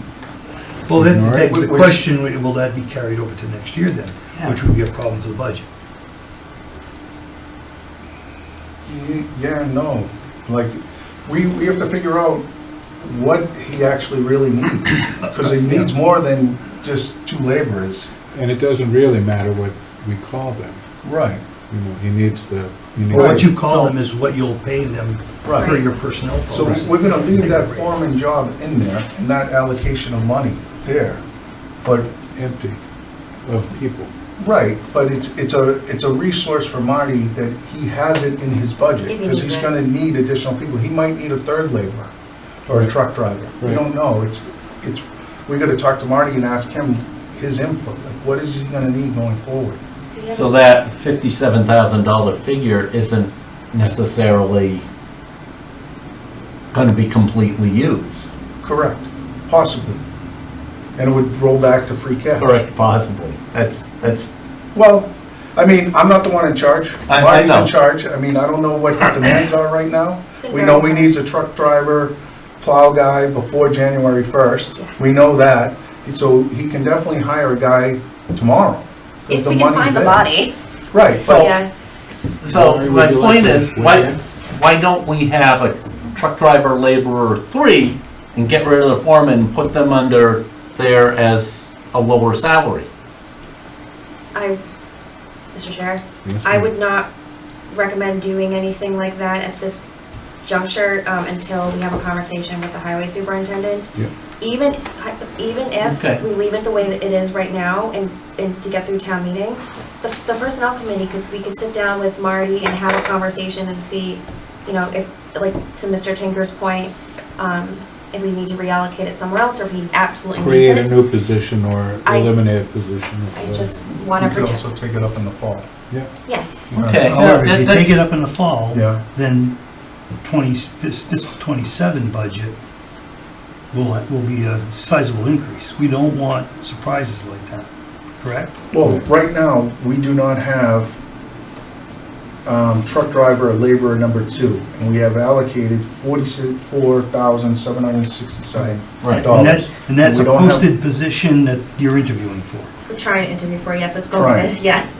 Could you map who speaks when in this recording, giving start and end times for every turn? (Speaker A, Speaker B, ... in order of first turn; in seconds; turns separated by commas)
Speaker A: 0.8-5.6, Speaker B: 0.9-1.5, Speaker C: 1.5-2.0, Speaker C: 8.9-12.4, Speaker C: 13.0-18.1, Speaker A: 15.3-15.9, Speaker B: 18.3-20.8, Speaker C: 21.0-21.4, Speaker B: 21.7-23.5, Speaker A: 23.1-28.0, Speaker C: 23.1-23.5, Speaker D: 23.7-23.9, Speaker C: 26.5-31.2, Speaker C: 31.8-32.1, Speaker B: 32.3-32.8, Speaker B: 33.4-34.1, Speaker C: 34.4-42.1, Speaker E: 39.0-39.8, Speaker C: 42.7-49.8, Speaker E: 50.1-50.7, Speaker D: 50.3-54.8, Speaker D: 56.7-58.3, Speaker C: 58.6-60.0, Speaker C: 61.0-62.6, Speaker D: 62.4-64.3, Speaker C: 64.7-80.2, Speaker D: 67.1-67.7, Speaker E: 70.3-71.1, Speaker E: 74.7-75.0, Speaker E: 79.3-80.5, Speaker C: 80.9-81.5, Speaker D: 81.2-81.5, Speaker E: 81.3-81.7, Speaker B: 82.4-84.2, Speaker D: 82.4-92.9, Speaker E: 94.3-94.6, Speaker E: 95.5-97.1, Speaker B: 96.2-96.7, Speaker E: 97.7-99.8, Speaker E: 100.4-120.9, Speaker D: 105.8-106.2, Speaker B: 120.4-123.8, Speaker E: 123.3-124.6, Speaker C: 124.2-125.7, Speaker E: 126.2-126.6, Speaker C: 126.7-127.2, Speaker D: 126.7-128.0, Speaker A: 127.1-129.6, Speaker C: 128.7-129.0, Speaker A: 130.2-132.6, Speaker A: 133.7-137.7, Speaker A: 138.2-138.6, Speaker C: 138.7-140.9, Speaker C: 142.4-150.7, Speaker A: 148.5-152.7, Speaker E: 152.9-154.9, Speaker C: 154.1-154.5